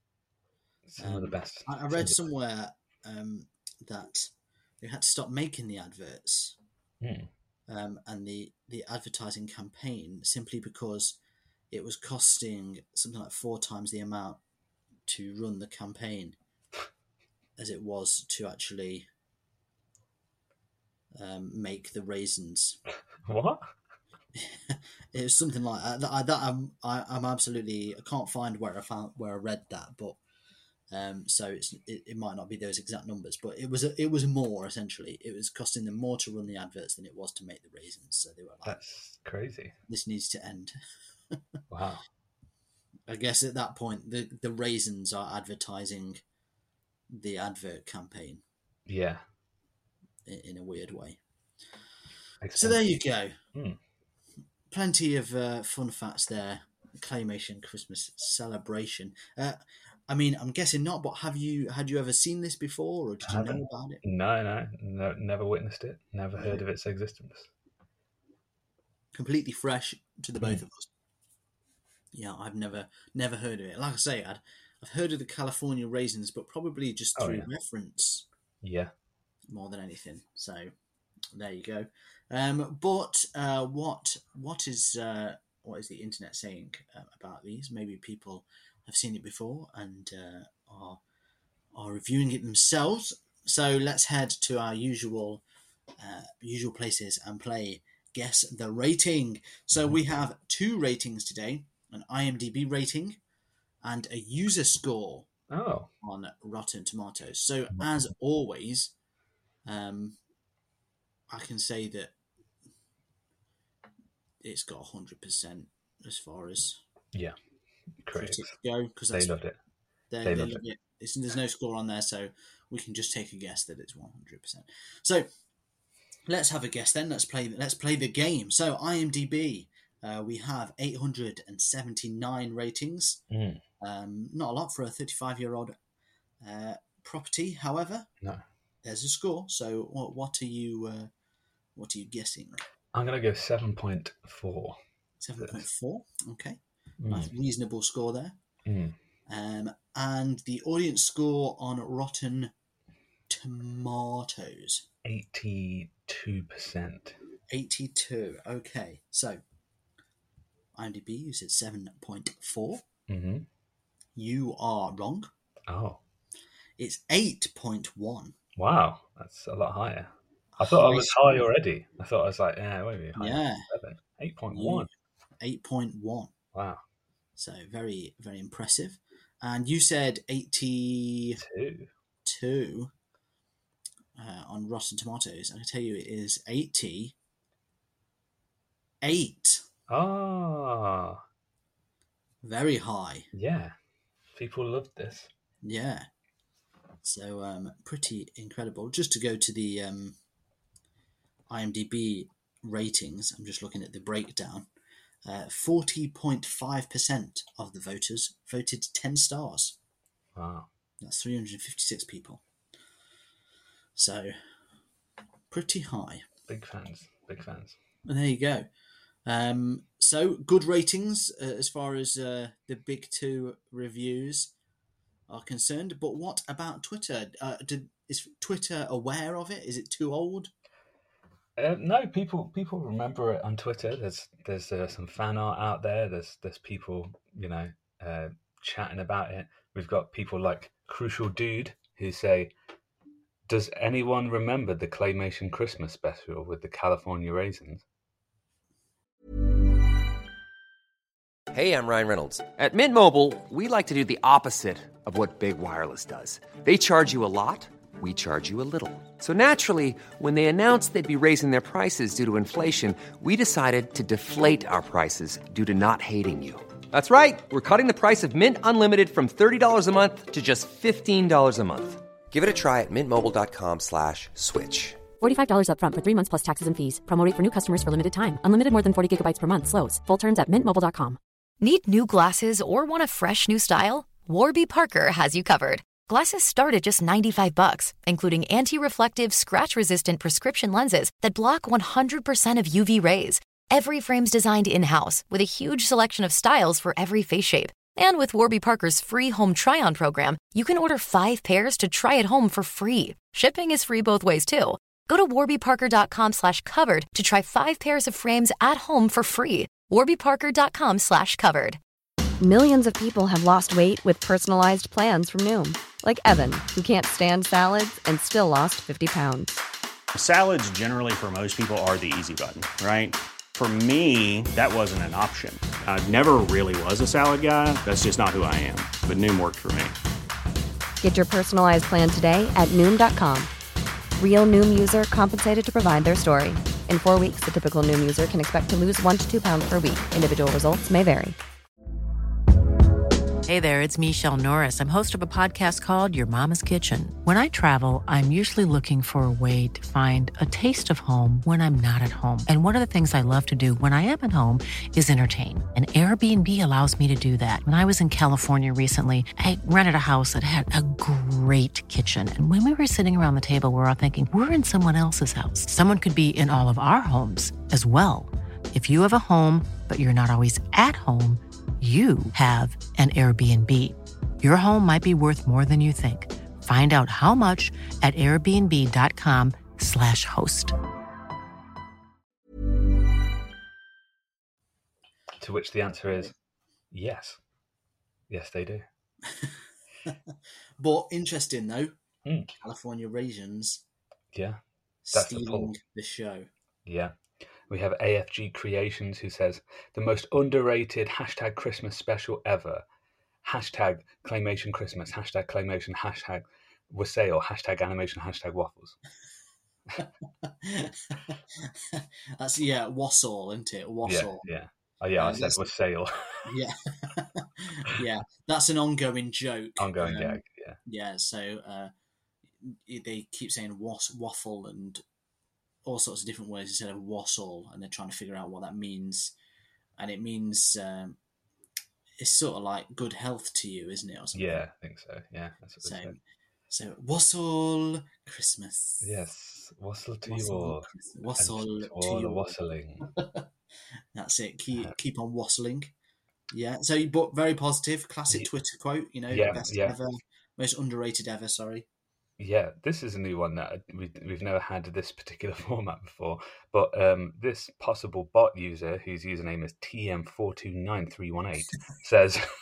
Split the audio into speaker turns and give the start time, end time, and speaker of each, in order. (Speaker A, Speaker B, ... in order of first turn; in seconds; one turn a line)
Speaker A: 0.9-2.2
Speaker B: 1.0-6.6
Speaker A: 7.0-7.3
Speaker B: 7.7-11.2
Speaker B: 11.7-14.4
Speaker B: 15.1-16.4
Speaker B: 17.6-19.1
Speaker B: 21.1-22.8
Speaker A: 23.3-23.7
Speaker B: 24.4-30.2
Speaker B: 30.9-38.8
Speaker A: 38.6-39.7
Speaker B: 39.9-40.8
Speaker A: 41.7-42.0
Speaker B: 43.1-46.2
Speaker B: 47.1-48.4
Speaker A: 48.9-49.2
Speaker B: 50.3-51.2
Speaker A: 52.4-52.8
Speaker B: 52.6-53.4
Speaker B: 54.7-64.0
Speaker A: 63.2-67.5
Speaker B: 66.4-66.6
Speaker B: 69.1-70.9
Speaker B: 72.1-78.3
Speaker A: 77.2-77.5
Speaker A: 78.6-78.9
Speaker B: 79.5-80.7
Speaker B: 81.3-91.0
Speaker B: 91.7-95.4
Speaker B: 96.0-103.2
Speaker B: 103.8-105.3
Speaker A: 105.5-105.9
Speaker B: 106.0-108.9
Speaker B: 109.7-110.2
Speaker B: 111.3-112.1
Speaker B: 114.4-116.8
Speaker A: 118.0-118.5
Speaker B: 118.1-119.3
Speaker A: 119.1-119.6
Speaker B: 120.1-125.3
Speaker A: 120.2-120.6
Speaker B: 126.3-133.2
Speaker A: 133.3-133.6
Speaker B: 133.8-135.8
Speaker B: 136.4-138.1
Speaker B: 138.8-141.1
Speaker B: 141.8-142.6
Speaker A: 142.9-144.8
Speaker B: 145.2-148.4
Speaker A: 147.0-147.3
Speaker A: 148.7-148.9
Speaker B: 149.3-152.5
Speaker B: 153.3-154.9
Speaker A: 155.1-157.2
Speaker B: 157.5-159.4
Speaker B: 160.8-162.8
Speaker A: 163.1-163.5
Speaker B: 164.2-165.3
Speaker A: 165.7-166.0
Speaker B: 166.8-168.4
Speaker A: 168.6-174.9
Speaker B: 170.6-171.5
Speaker B: 173.2-173.7
Speaker B: 174.5-174.9
Speaker B: 175.4-176.3
Speaker A: 176.5-176.8
Speaker B: 177.4-181.4
Speaker A: 181.4-181.9
Speaker B: 182.2-182.9
Speaker B: 184.2-187.2
Speaker B: 189.0-189.7
Speaker A: 189.9-191.2
Speaker B: 192.4-193.3
Speaker A: 193.3-193.7
Speaker A: 194.3-195.3
Speaker B: 195.6-196.1
Speaker B: 197.0-200.2
Speaker B: 201.5-204.7
Speaker B: 205.2-209.8
Speaker A: 210.4-210.7
Speaker B: 211.0-212.4
Speaker B: 214.0-214.3
Speaker B: 215.5-216.2
Speaker A: 216.5-217.8
Speaker B: 218.1-218.7
Speaker B: 219.3-224.5
Speaker B: 225.3-230.5
Speaker A: 231.6-242.5
Speaker A: 243.5-247.8
Speaker C: 251.5-275.0
Speaker D: 275.2-281.2
Speaker E: 281.6-311.8
Speaker F: 312.4-319.6
Speaker G: 320.1-330.0
Speaker F: 331.0-333.5
Speaker F: 334.2-341.4
Speaker H: 343.5-380.8
Speaker A: 385.4-386.3
Speaker A: 386.9-387.4
Speaker A: 388.3-388.9
Speaker B: 389.3-389.6
Speaker B: 390.1-391.9
Speaker A: 392.2-392.5
Speaker B: 392.6-393.8
Speaker A: 394.3-394.6
Speaker B: 395.1-396.5
Speaker A: 395.1-395.7
Speaker A: 396.9-397.1
Speaker A: 397.7-402.8
Speaker A: 403.4-409.0
Speaker B: 410.0-414.5
Speaker A: 414.1-416.5
Speaker B: 415.2-415.7
Speaker B: 416.4-421.9
Speaker A: 419.8-420.8
Speaker B: 422.6-425.0
Speaker B: 425.9-429.4
Speaker B: 430.0-431.2
Speaker B: 432.2-434.6
Speaker A: 434.3-436.2
Speaker B: 435.8-436.2
Speaker B: 436.7-439.1
Speaker A: 439.0-440.9
Speaker B: 440.3-442.6
Speaker A: 441.4-443.1
Speaker B: 443.2-443.4
Speaker B: 444.1-445.9
Speaker B: 446.5-451.9
Speaker A: 449.3-450.0
Speaker A: 452.4-462.4